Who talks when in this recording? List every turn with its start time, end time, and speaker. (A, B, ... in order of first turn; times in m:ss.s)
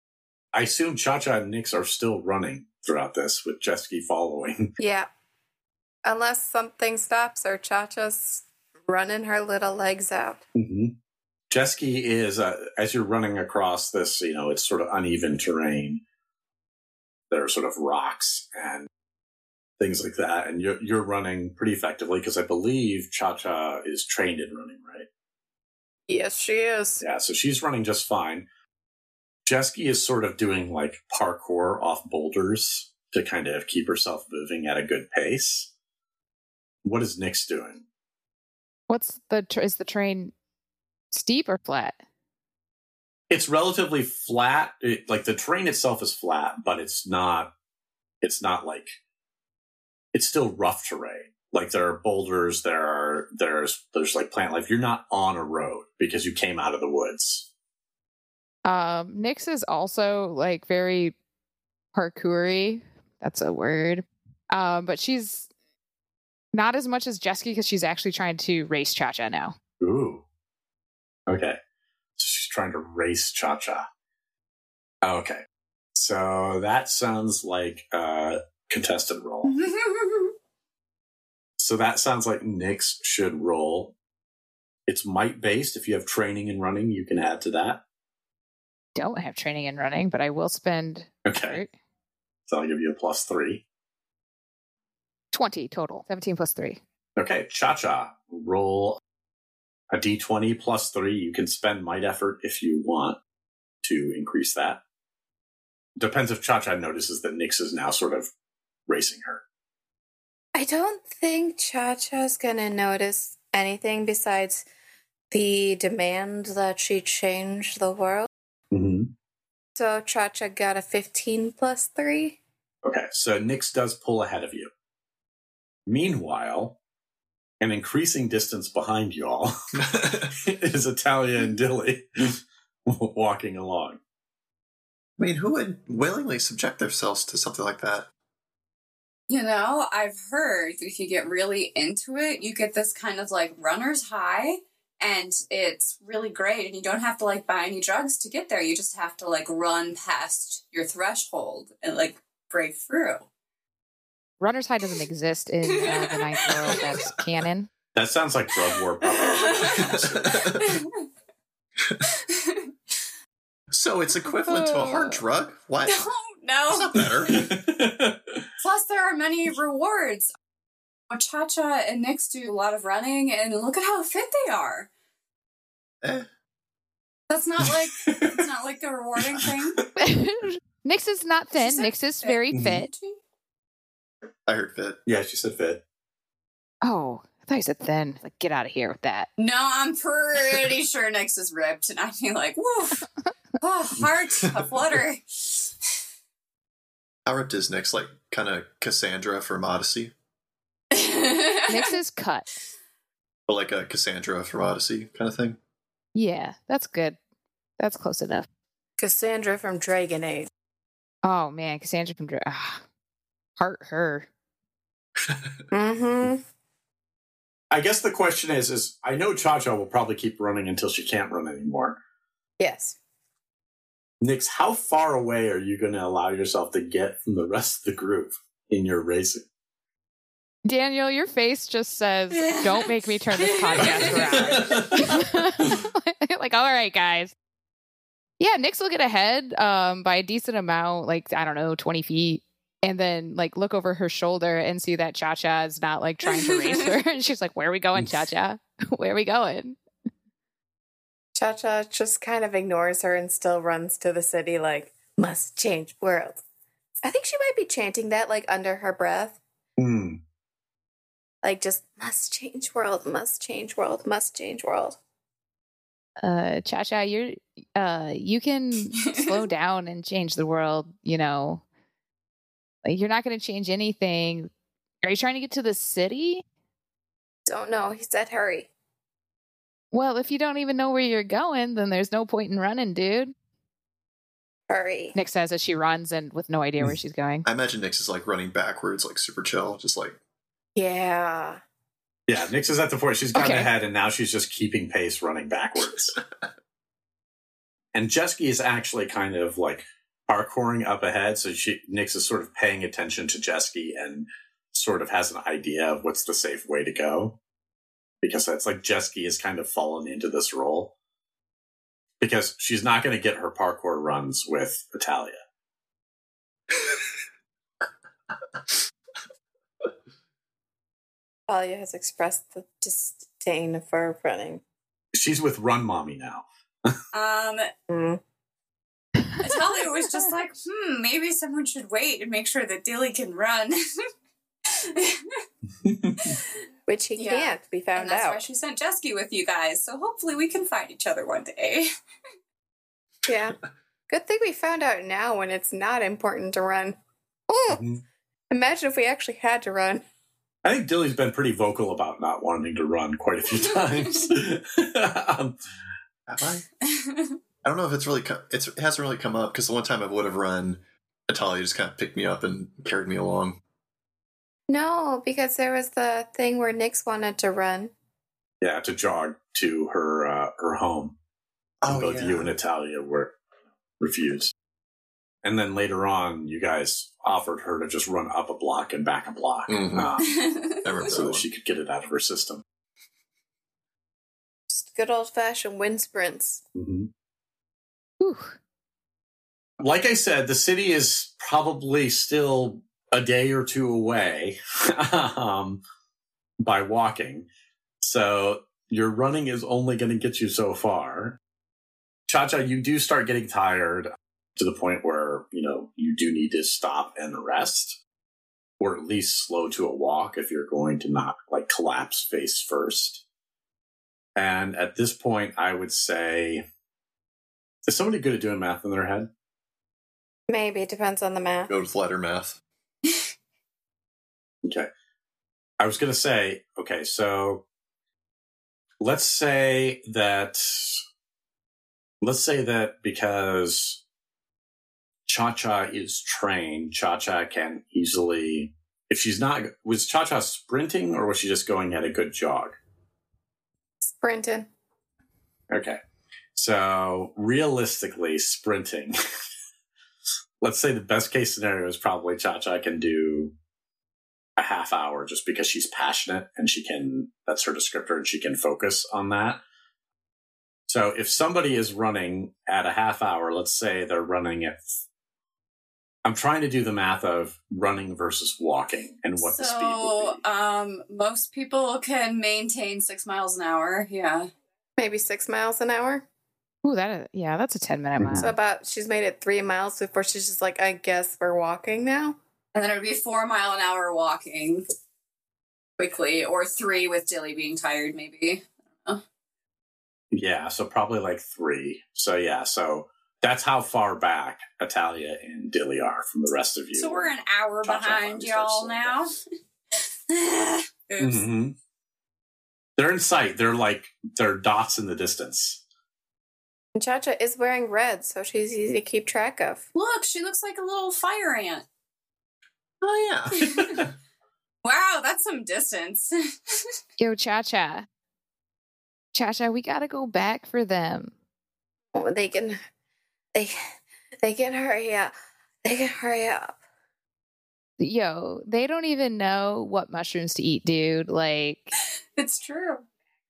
0:00.5-0:04.7 A
0:04.8-0:05.1 B
0:06.0-0:10.4 B
0:10.5-0:10.9 A
0:11.5-0:16.0 A
0:17.3-0:18.9 A
0:19.8-0:25.1 A
0:26.1-0:27.0 B
0:27.0-0:28.4 A
0:29.4-0:35.7 A
0:36.8-0:37.8 A
0:38.9-0:40.3 C
0:41.1-0:42.0 C
0:43.3-0:47.5 A
0:48.2-0:48.9 A
0:50.1-0:57.5 A
0:58.6-1:01.1 C
1:01.9-1:05.5 C
1:06.5-1:09.6 C
1:09.8-1:10.2 A
1:11.3-1:11.6 A
1:12.2-1:13.9 A
1:15.0-1:15.4 A
1:16.0-1:19.5 A
1:19.4-1:20.3 D
1:21.6-1:23.9 A
1:24.9-1:27.8 A
1:28.9-1:31.7 C
1:31.2-1:31.6 A
1:32.5-1:33.6 A
1:35.3-1:36.8 C
1:37.2-1:39.0 A
1:39.9-1:43.2 A
1:43.8-1:44.8 A
1:46.0-1:48.3 A
1:48.9-1:49.4 A
1:50.6-1:54.7 B
1:55.3-1:58.3 B
1:58.7-1:59.1 A
1:59.7-2:02.4 B
2:02.8-2:04.7 A
2:05.9-2:06.8 A
2:07.6-2:09.5 A
2:09.8-2:10.3 E
2:10.4-2:14.0 A
2:15.2-2:18.1 E
2:19.3-2:33.2 D
2:34.4-2:37.7 C
2:35.6-2:37.0 D
2:37.9-2:40.0 A
2:38.5-2:41.0 D
2:39.8-2:40.7 E
2:41.8-2:42.1 E
2:42.0-2:43.0 D
2:43.7-2:46.0 E
2:44.4-2:45.2 C
2:45.8-2:47.3 D
2:46.7-2:47.5 E
2:47.3-2:48.5 A
2:48.6-2:50.3 D
2:51.1-2:54.9 D
2:56.0-2:56.3 E
2:57.3-2:59.8 D
2:58.0-2:58.4 A
3:00.0-3:02.9 C
3:01.5-3:03.2 D
3:02.5-3:02.8 A
3:04.4-3:05.0 E
3:05.0-3:05.8 A
3:06.8-3:09.3 C
3:09.4-3:13.0 D
3:13.6-3:16.0 D
3:17.2-3:20.1 E
3:20.9-3:21.9 D
3:21.7-3:22.5 C
3:23.5-3:25.6 E
3:26.1-3:27.2 C
3:27.8-3:28.5 C
3:29.0-3:30.5 B
3:31.2-3:32.8 C
3:33.6-3:34.3 C
3:35.7-3:36.4 B
3:37.7-3:42.0 A
3:42.6-3:43.0 B
3:44.2-3:49.4 A
3:50.6-3:57.3 C
3:52.3-3:55.0 D
3:54.2-3:55.2 A
3:58.4-4:09.8 C
4:06.2-4:06.9 D
4:11.4-4:16.4 B
4:17.0-4:19.4 B
4:19.8-4:20.2 A
4:21.4-4:25.0 B
4:26.2-4:31.6 C
4:29.0-4:29.4 D
4:32.8-4:34.5 C
4:35.0-4:36.4 C
4:37.4-4:38.7 B
4:39.9-4:43.3 C
4:44.7-4:45.1 B
4:45.1-4:47.4 C
4:47.4-4:50.2 E
4:50.8-4:51.6 B
4:52.3-4:56.2 A
4:53.3-4:53.7 C
4:57.9-5:07.4 A
5:08.2-5:10.9 A
5:12.2-5:15.4 A
5:21.5-5:24.6 B
5:25.1-5:27.0 A
5:27.1-5:27.7 D
5:27.9-5:28.2 B
5:29.4-5:33.8 D
5:34.7-5:35.4 D
5:35.8-5:36.3 A
5:36.2-5:36.6 D
5:36.9-5:38.4 B
5:37.2-5:41.9 D
5:43.2-5:43.6 B
5:44.1-5:47.0 B
5:47.5-5:47.8 B
5:47.7-5:48.0 A
5:48.5-5:50.0 B
5:50.6-5:55.6 A
5:53.6-5:54.3 D
5:56.3-5:56.6 E
5:56.8-5:57.4 D
5:57.6-6:03.6 E
6:04.7-6:07.9 B
6:08.6-6:11.1 A
6:11.8-6:12.5 E
6:11.9-6:13.4 A
6:14.0-6:14.5 A
6:15.4-6:20.5 A
6:19.7-6:20.1 E
6:20.2-6:21.0 D
6:20.8-6:21.5 E
6:21.0-6:22.6 A
6:24.7-6:26.6 B
6:26.7-6:27.1 A
6:28.2-6:28.6 C
6:29.8-6:35.8 A
6:36.6-6:37.5 A
6:38.0-6:41.4 A
6:42.3-6:48.0 A
6:48.8-6:53.2 A
6:54.4-6:56.6 A
6:57.8-6:59.3 A
7:00.5-7:01.7 B
7:01.7-7:02.6 E
7:05.8-7:07.6 A
7:09.0-7:11.0 A
7:12.2-7:14.0 A
7:15.3-7:22.8 A
7:24.0-7:24.7 B
7:25.7-7:26.0 A
7:26.5-7:29.1 A
7:30.6-7:33.5 A
7:34.6-7:39.6 A
7:40.9-7:44.9 A
7:46.2-7:50.4 A
7:49.4-7:54.5 D
7:55.0-7:56.2 B
7:56.8-7:58.5 C
7:58.2-7:58.5 A
7:58.4-8:02.4 B
8:02.7-8:04.8 D
8:06.0-8:09.2 D
8:10.3-8:17.3 A
8:17.0-8:19.4 D
8:17.8-8:19.3 A
8:19.9-8:21.4 D
8:21.2-8:21.8 A
8:23.0-8:25.8 A
8:27.0-8:29.8 B
8:29.9-8:31.9 D
8:33.0-8:34.1 E
8:33.5-8:34.1 D
8:34.8-8:36.8 D
8:37.2-8:38.1 C
8:39.3-8:41.3 C
8:42.1-8:42.8 B
8:44.4-8:45.3 B
8:45.8-8:46.8 B
8:48.0-8:51.9 C
8:52.4-8:53.0 D